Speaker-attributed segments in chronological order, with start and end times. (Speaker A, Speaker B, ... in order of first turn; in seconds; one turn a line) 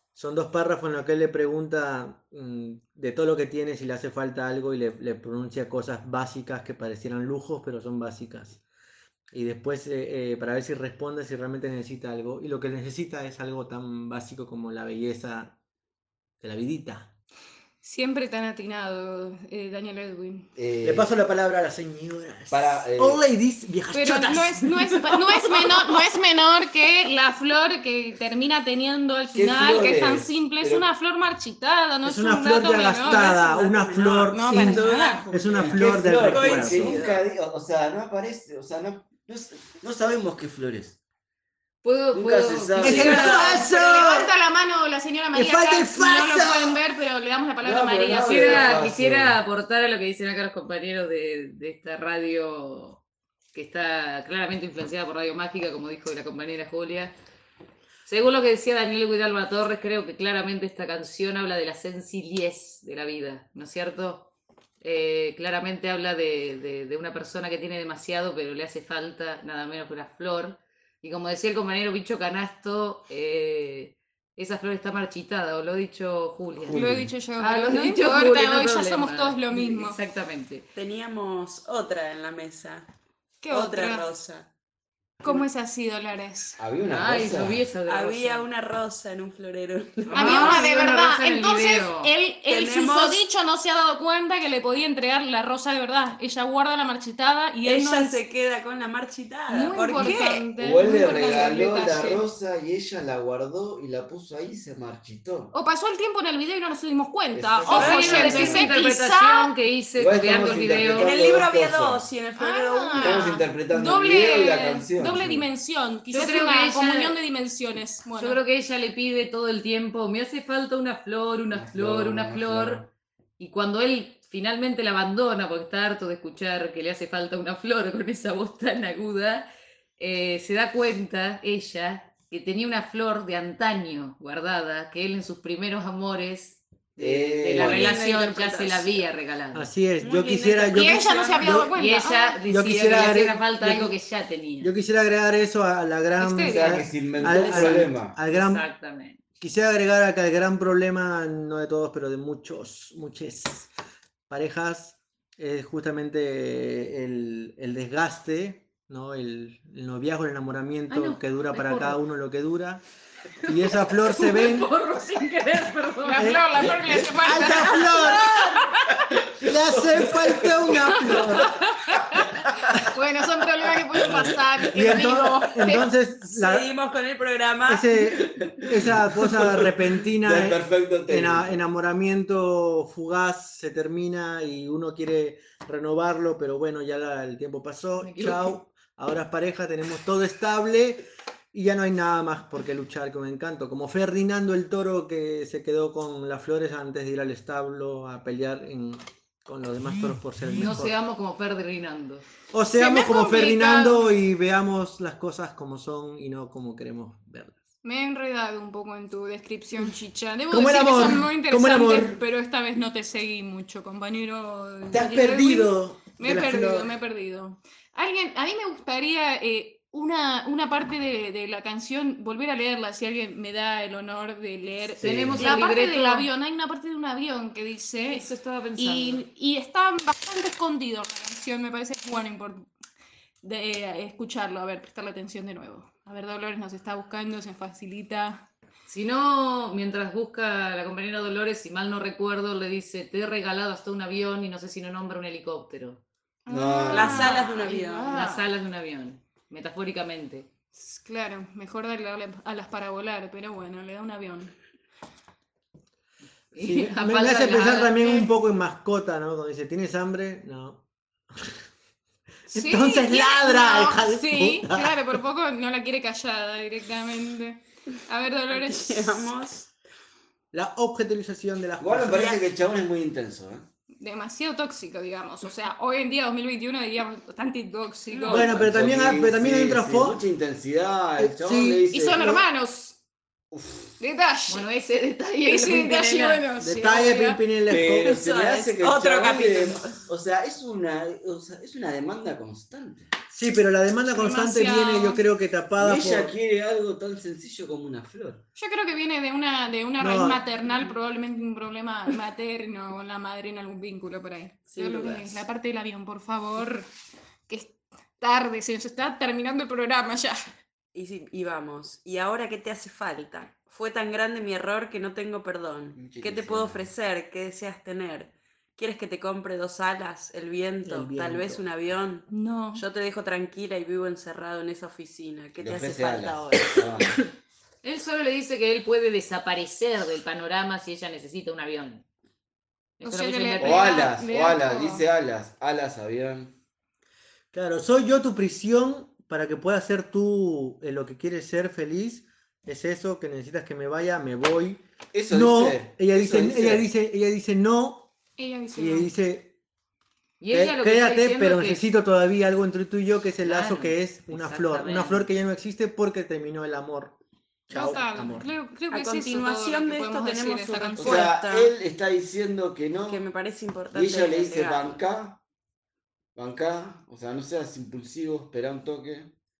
Speaker A: 0.1-8.6
Speaker A: 9.3-15.6
Speaker A: 16.4-17.1
Speaker B: 17.8-20.5
Speaker C: 20.6-21.1
Speaker A: 20.8-24.7
Speaker C: 22.5-23.2
Speaker B: 23.9-33.5
Speaker C: 29.3-30.9
Speaker A: 32.0-37.0
Speaker D: 32.9-35.5
Speaker B: 34.3-35.3
Speaker C: 35.5-41.0
Speaker D: 36.2-37.2
Speaker E: 41.8-43.5
Speaker C: 42.1-43.5
Speaker A: 42.8-44.3
Speaker D: 42.9-43.6
Speaker B: 43.5-48.8
Speaker A: 45.3-46.8
Speaker C: 47.6-49.4
Speaker E: 48.1-53.0
Speaker E: 53.5-57.1
Speaker E: 58.0-76.8
Speaker C: 76.5-77.1
Speaker B: 76.7-80.0
Speaker E: 77.4-80.7
Speaker D: 80.7-82.9
Speaker B: 83.4-84.1
Speaker D: 83.5-84.5
Speaker B: 85.2-86.6
Speaker C: 86.6-87.7
Speaker E: 86.8-88.5
Speaker D: 87.8-90.6
Speaker E: 90.0-92.1
Speaker B: 90.1-98.2
Speaker D: 92.5-93.2
Speaker D: 97.6-100.6
Speaker B: 99.5-102.2
Speaker C: 100.0-105.5
Speaker B: 105.5-109.5
Speaker C: 107.3-108.8
Speaker D: 107.7-108.7
Speaker E: 107.7-111.2
Speaker C: 110.0-112.1
Speaker D: 110.9-113.4
Speaker B: 112.4-118.4
Speaker C: 112.9-115.5
Speaker E: 116.1-117.2
Speaker E: 118.2-122.8
Speaker C: 121.5-122.9
Speaker E: 123.4-129.5
Speaker E: 130.0-139.7
Speaker C: 137.0-138.0
Speaker D: 137.0-139.0
Speaker A: 139.5-141.7
Speaker D: 140.0-141.5
Speaker B: 140.7-142.4
Speaker E: 141.6-144.7
Speaker A: 142.4-143.9
Speaker A: 144.6-148.7
Speaker B: 146.2-147.8
Speaker C: 146.4-148.2
Speaker E: 148.2-149.2
Speaker A: 149.4-153.7
Speaker A: 154.3-162.8
Speaker E: 160.9-162.0
Speaker E: 163.4-166.4
Speaker A: 163.5-164.7
Speaker B: 166.0-168.7
Speaker A: 166.2-168.5
Speaker C: 169.4-171.4
Speaker A: 169.4-171.5
Speaker B: 172.9-175.9
Speaker A: 174.0-176.7
Speaker D: 176.3-178.0
Speaker A: 177.7-200.9
Speaker C: 178.2-181.6
Speaker E: 188.0-188.5
Speaker E: 200.5-202.2
Speaker A: 202.5-207.6
Speaker B: 202.7-204.1
Speaker B: 207.8-232.7
Speaker A: 210.5-212.2
Speaker A: 214.9-216.9
Speaker C: 225.0-225.5
Speaker E: 225.0-226.3
Speaker E: 228.1-229.2
Speaker B: 233.4-238.5
Speaker E: 238.9-246.0
Speaker B: 246.4-248.4
Speaker C: 246.5-247.3
Speaker D: 246.9-248.4
Speaker E: 247.4-250.5
Speaker B: 250.7-254.5
Speaker E: 256.5-258.3
Speaker A: 256.6-260.9
Speaker A: 262.5-265.2
Speaker B: 262.5-269.3
Speaker D: 268.5-269.7
Speaker A: 270.5-272.4
Speaker C: 271.8-273.7
Speaker B: 274.0-278.5
Speaker A: 278.3-280.2
Speaker C: 278.3-282.4
Speaker A: 281.2-282.4
Speaker B: 281.9-283.0
Speaker C: 283.5-284.0
Speaker B: 284.0-284.6
Speaker E: 284.5-286.4
Speaker B: 285.4-287.4
Speaker A: 286.6-288.2
Speaker C: 287.7-293.1
Speaker D: 288.1-290.0
Speaker A: 293.3-296.4
Speaker B: 294.1-295.2
Speaker C: 295.8-298.4
Speaker B: 298.5-306.9
Speaker A: 300.0-300.4
Speaker D: 304.7-305.4
Speaker B: 307.5-310.4
Speaker D: 310.9-326.9
Speaker C: 315.9-316.9
Speaker A: 320.8-321.6
Speaker B: 322.3-322.8
Speaker C: 325.5-327.2
Speaker E: 327.8-332.0
Speaker E: 333.0-333.9
Speaker B: 333.0-335.0
Speaker C: 333.6-336.6
Speaker A: 337.5-348.1
Speaker C: 345.1-346.9
Speaker B: 348.4-349.1
Speaker A: 348.7-349.5
Speaker E: 350.4-351.9
Speaker A: 350.5-358.5
Speaker E: 353.4-355.3
Speaker B: 357.7-361.3
Speaker D: 358.9-361.7
Speaker C: 361.0-363.2
Speaker D: 363.1-365.0
Speaker C: 363.9-365.4
Speaker C: 366.4-369.3